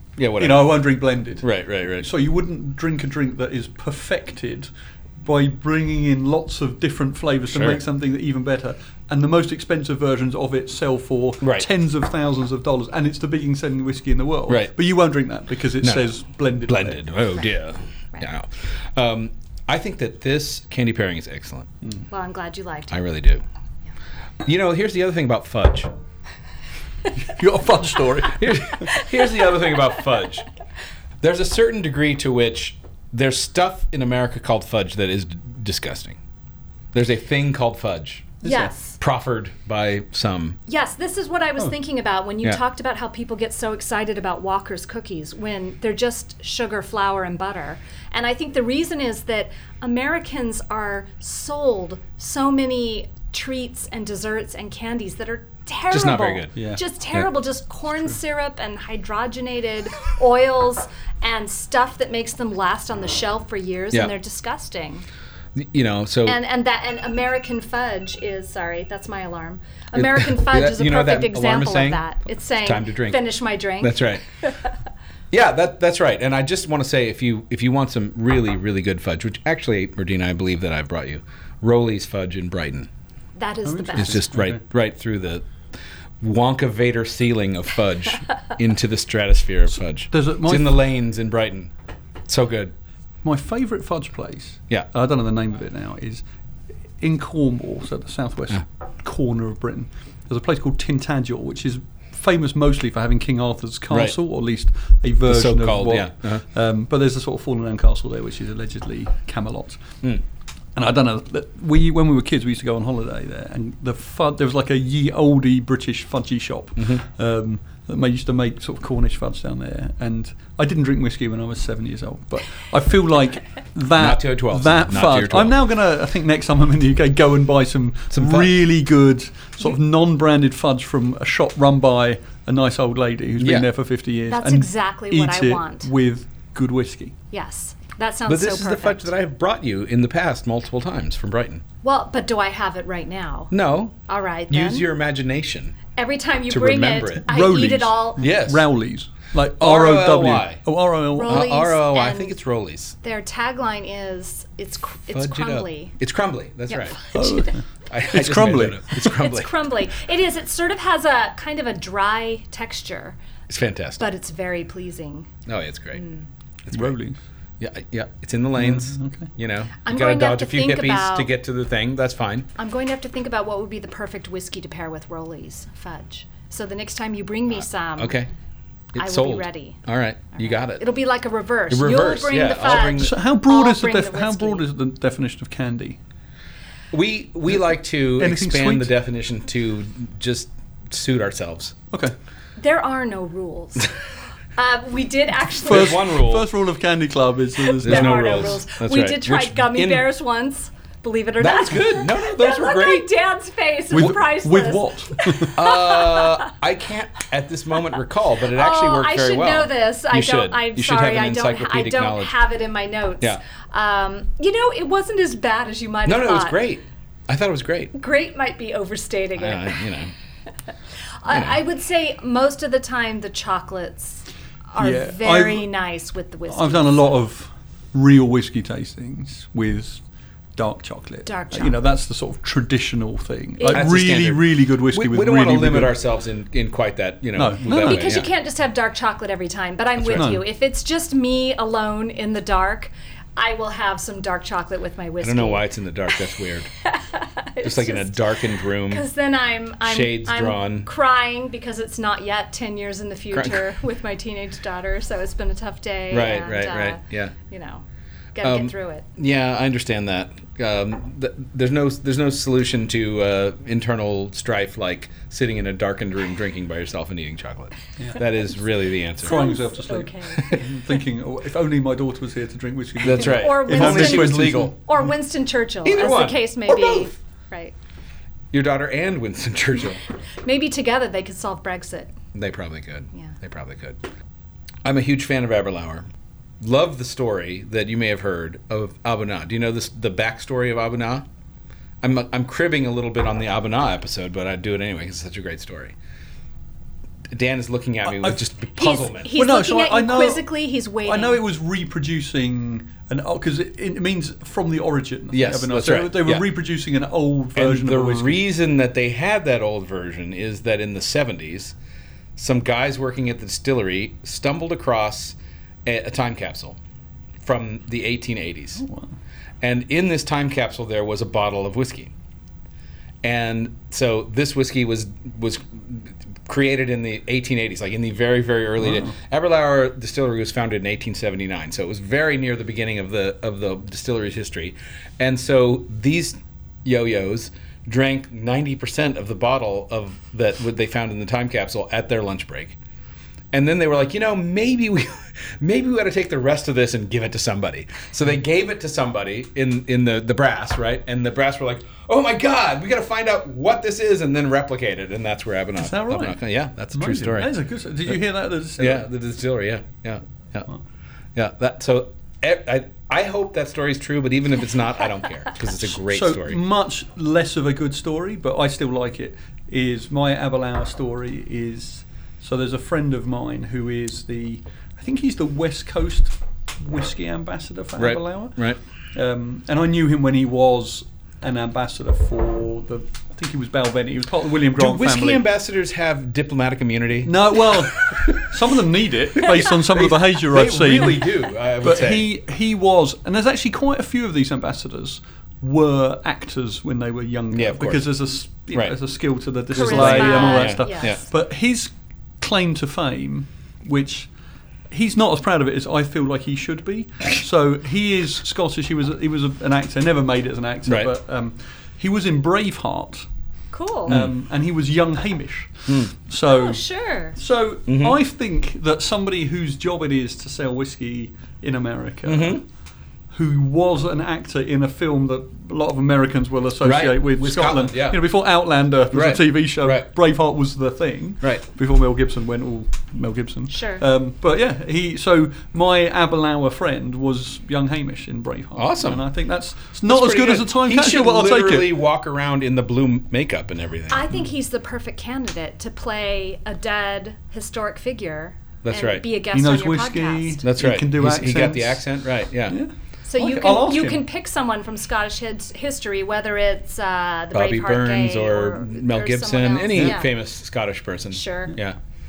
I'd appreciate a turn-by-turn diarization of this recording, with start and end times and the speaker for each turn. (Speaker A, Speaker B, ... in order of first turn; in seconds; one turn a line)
Speaker A: 0.2-0.8
Speaker B: 0.4-17.1
Speaker A: 1.4-2.1
Speaker A: 7.5-7.8
Speaker A: 11.4-11.7
Speaker A: 15.8-16.1
Speaker A: 16.7-21.7
Speaker C: 22.1-23.0
Speaker A: 22.9-23.4
Speaker A: 24.4-25.9
Speaker B: 27.2-28.8
Speaker A: 28.3-30.5
Speaker A: 31.2-36.2
Speaker A: 36.9-38.4
Speaker B: 38.4-38.7
Speaker C: 38.4-39.0
Speaker A: 39.0-40.6
Speaker C: 40.7-65.0
Speaker A: 55.9-56.6
Speaker B: 56.5-56.8
Speaker A: 65.5-66.4
Speaker C: 66.2-74.2
Speaker A: 69.9-74.2
Speaker A: 75.3-82.9
Speaker C: 83.4-84.2
Speaker B: 83.7-84.6
Speaker A: 84.0-85.5
Speaker A: 86.2-91.7
Speaker B: 90.1-90.8
Speaker A: 92.3-92.7
Speaker B: 93.2-96.2
Speaker B: 97.0-109.8
Speaker A: 103.9-104.2
Speaker A: 105.3-106.4
Speaker B: 110.8-137.2
Speaker A: 124.0-125.6
Speaker A: 128.1-128.5
Speaker A: 133.4-133.7
Speaker C: 134.3-135.9
Speaker C: 137.3-139.1
Speaker A: 138.3-141.6
Speaker C: 141.8-143.5
Speaker A: 143.5-144.0
Speaker C: 144.1-144.9
Speaker A: 144.5-145.8
Speaker C: 145.9-148.2
Speaker A: 146.5-147.3
Speaker B: 147.2-151.5
Speaker A: 148.2-148.6
Speaker A: 149.6-150.6
Speaker C: 151.2-152.4
Speaker A: 151.2-153.0
Speaker C: 153.0-155.9
Speaker A: 155.1-157.1
Speaker C: 156.7-157.5
Speaker B: 157.1-158.8
Speaker A: 157.9-159.5
Speaker C: 159.0-163.2
Speaker A: 163.5-164.0
Speaker C: 164.0-165.3
Speaker A: 165.5-166.0
Speaker C: 165.9-166.3
Speaker A: 166.7-167.0
Speaker B: 166.7-167.2
Speaker A: 167.6-172.5
Speaker B: 168.6-169.3
Speaker C: 169.8-171.3
Speaker C: 172.6-178.2
Speaker A: 178.0-178.3
Speaker A: 178.9-180.9
Speaker C: 179.0-179.8
Speaker C: 180.4-184.6
Speaker A: 181.7-183.1
Speaker B: 183.0-186.0
Speaker A: 186.9-191.8
Speaker B: 188.2-188.9
Speaker C: 192.6-194.0
Speaker C: 194.6-196.1
Speaker A: 195.6-196.5
Speaker B: 195.7-198.6
Speaker C: 197.7-206.5
Speaker A: 197.8-200.1
Speaker A: 201.4-203.1
Speaker B: 203.9-205.6
Speaker A: 205.6-212.3
Speaker C: 208.5-216.6
Speaker A: 216.1-217.9
Speaker C: 217.9-219.9
Speaker A: 219.4-220.1
Speaker C: 221.2-227.0
Speaker A: 221.3-221.6
Speaker B: 224.8-225.7
Speaker B: 226.5-230.0
Speaker B: 230.6-235.9
Speaker C: 231.2-231.8
Speaker C: 233.6-233.9
Speaker A: 233.7-238.3
Speaker B: 237.4-238.2
Speaker C: 237.7-245.7
Speaker A: 240.0-240.4
Speaker B: 240.1-240.4
Speaker A: 245.2-246.7
Speaker C: 246.8-257.8
Speaker A: 247.6-249.1
Speaker A: 249.8-250.9
Speaker A: 253.3-253.7
Speaker A: 256.1-257.3
Speaker C: 258.4-259.1
Speaker A: 258.4-269.5
Speaker B: 269.2-274.8
Speaker C: 269.2-270.8
Speaker A: 273.0-274.7
Speaker C: 273.2-277.7
Speaker A: 275.9-277.1
Speaker A: 278.5-280.0
Speaker C: 280.4-282.1
Speaker A: 282.3-284.0
Speaker A: 284.8-286.1
Speaker A: 286.6-291.3
Speaker A: 292.0-295.9
Speaker A: 297.3-299.3
Speaker C: 298.8-301.4
Speaker B: 299.4-308.4
Speaker A: 305.3-306.5
Speaker A: 307.6-311.8
Speaker A: 312.4-316.8
Speaker A: 317.4-318.8
Speaker B: 318.8-319.1
Speaker A: 319.6-322.1
Speaker A: 323.2-342.8
Speaker B: 328.8-329.1
Speaker A: 343.5-357.5
Speaker B: 355.8-356.4
Speaker B: 356.9-359.1
Speaker A: 358.8-360.7
Speaker A: 361.4-366.6
Speaker B: 365.9-385.4
Speaker A: 378.0-378.8
Speaker A: 384.8-388.4
Speaker B: 387.2-404.3
Speaker A: 389.4-392.3
Speaker A: 397.5-398.1
Speaker C: 399.7-401.2
Speaker A: 399.8-401.2
Speaker B: 404.9-413.2
Speaker C: 413.7-414.2
Speaker B: 414.1-416.8
Speaker C: 416.5-417.4
Speaker B: 417.4-422.6
Speaker A: 417.9-418.2
Speaker A: 422.2-422.6
Speaker B: 423.3-442.0
Speaker A: 426.8-428.3
Speaker A: 429.1-430.1
Speaker C: 433.7-434.0
Speaker A: 438.8-439.2
Speaker A: 440.1-444.3
Speaker C: 444.1-450.6
Speaker A: 448.8-449.2
Speaker B: 449.5-452.1
Speaker A: 450.6-452.8
Speaker B: 452.7-454.2
Speaker C: 453.3-460.3
Speaker A: 457.5-462.0
Speaker C: 461.3-461.8